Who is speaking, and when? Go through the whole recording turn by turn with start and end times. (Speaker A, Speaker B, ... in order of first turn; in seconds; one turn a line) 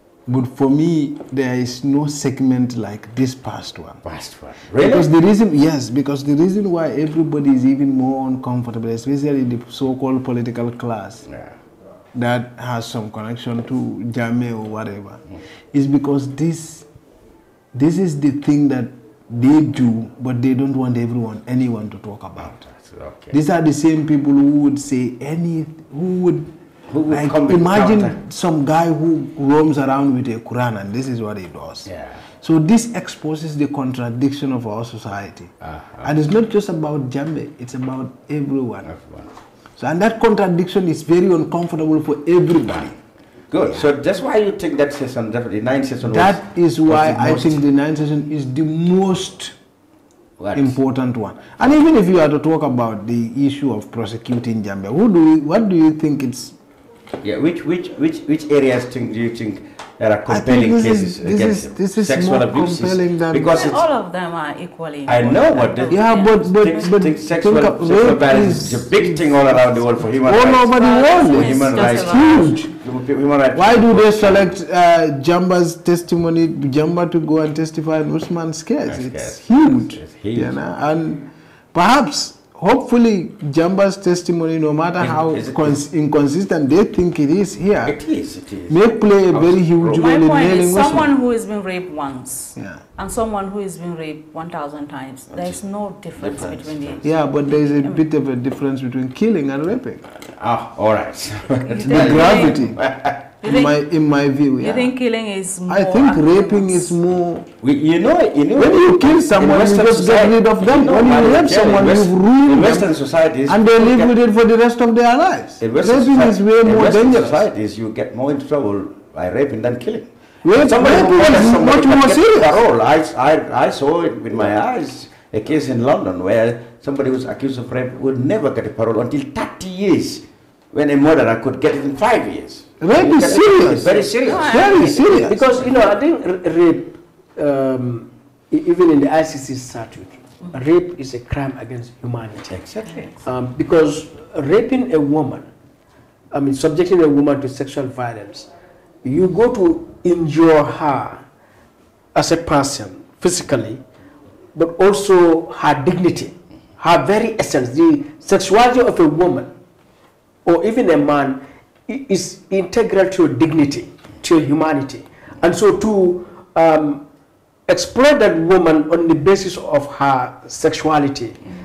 Speaker A: 0.3-4.0
Speaker B: 4.0-5.1
Speaker A: 4.8-11.2
Speaker B: 11.3-11.5
Speaker A: 12.1-15.2
Speaker A: 15.7-16.8
Speaker A: 17.7-22.6
Speaker B: 22.4-23.3
Speaker A: 23.3-26.5
Speaker B: 26.9-28.1
Speaker A: 27.1-31.9
Speaker B: 31.9-32.2
Speaker A: 32.4-35.5
Speaker B: 35.6-36.1
Speaker A: 36.0-38.9
Speaker B: 38.8-39.3
Speaker A: 39.8-42.9
Speaker B: 43.5-47.6
Speaker A: 46.0-49.5
Speaker B: 50.4-50.8
Speaker A: 50.5-56.5
Speaker B: 57.2-63.8
Speaker A: 60.3-63.6
Speaker C: 63.5-66.9
Speaker B: 65.1-74.5
Speaker A: 65.9-69.6
Speaker A: 70.2-72.7
Speaker C: 70.7-72.6
Speaker A: 73.5-87.9
Speaker B: 78.9-80.5
Speaker B: 85.0-85.8
Speaker B: 87.8-90.2
Speaker A: 88.7-91.1
Speaker C: 90.0-98.0
Speaker A: 92.5-92.8
Speaker B: 95.3-95.6
Speaker B: 96.2-97.0
Speaker A: 97.0-100.0
Speaker B: 100.2-103.2
Speaker C: 101.7-102.6
Speaker A: 101.8-102.8
Speaker C: 103.4-103.9
Speaker A: 103.4-104.9
Speaker C: 104.6-107.0
Speaker A: 105.7-107.5
Speaker B: 107.6-114.1
Speaker A: 108.5-112.9
Speaker A: 113.5-117.5
Speaker B: 115.6-135.4
Speaker A: 120.4-122.6
Speaker A: 132.8-135.4
Speaker D: 132.9-133.9
Speaker C: 134.2-135.2
Speaker D: 134.7-142.4
Speaker B: 142.5-142.9
Speaker C: 142.9-143.1
Speaker D: 143.2-145.5
Speaker D: 146.3-148.5
Speaker D: 149.0-151.2
Speaker D: 152.1-153.8
Speaker D: 154.5-159.5
Speaker D: 160.4-167.0
Speaker D: 167.7-171.4